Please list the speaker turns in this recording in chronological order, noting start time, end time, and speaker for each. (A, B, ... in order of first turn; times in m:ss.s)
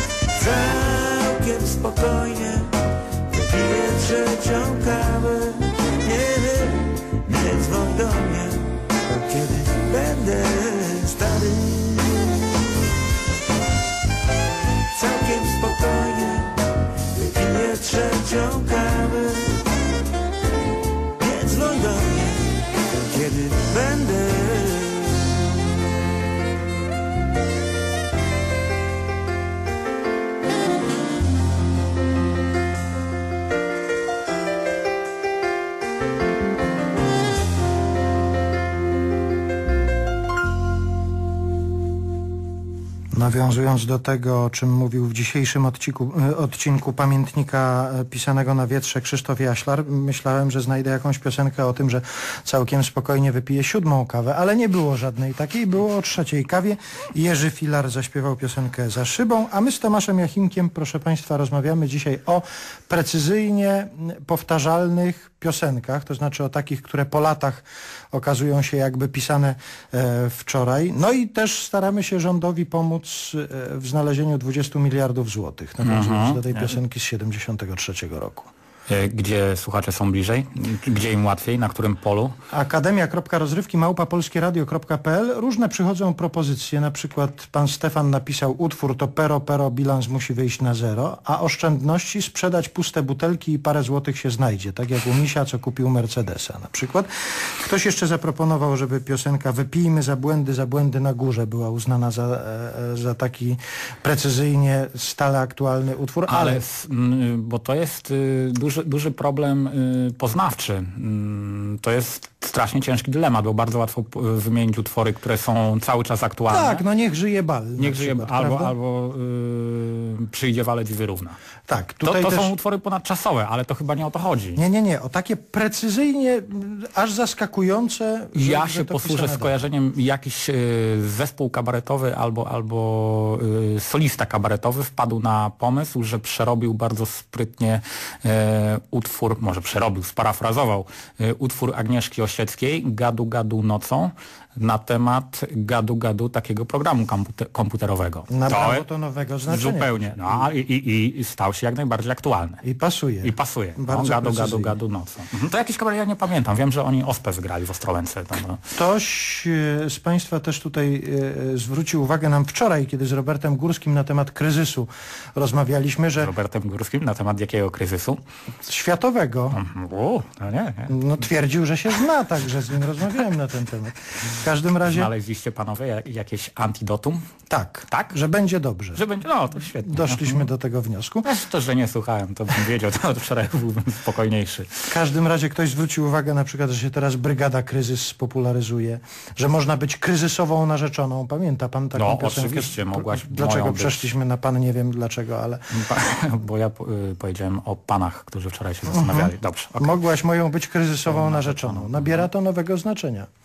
0:00.3-0:12.9 A
0:14.9-0:19.7 A
0:21.2-0:25.4 A
0:43.1-1:18.5 B
1:15.8-1:16.7 C
1:18.9-1:22.3 C
1:22.5-1:46.6 B
1:46.3-1:56.8 C
1:56.5-1:58.7 B
1:57.8-2:01.4 C
2:01.7-2:02.5 B
2:02.0-2:04.6 C
2:04.6-2:09.6 B
2:08.3-2:28.8 C
2:28.3-2:30.5 B
2:29.4-2:32.6 C
2:32.6-2:34.7 B
2:33.2-2:38.6 C
2:38.7-2:46.3 B
2:46.2-2:48.2 C
2:48.6-2:49.6 B
2:49.5-2:50.9 C
2:50.9-2:55.1 B
2:54.8-2:57.2 C
2:57.5-2:59.0 B
2:58.9-3:00.5 C
2:59.8-3:01.3 B
3:01.2-3:04.8 C
3:04.9-3:15.7 B
3:11.9-3:14.1 C
3:15.7-3:20.0 C
3:18.9-3:23.3 B
3:21.1-3:22.3 C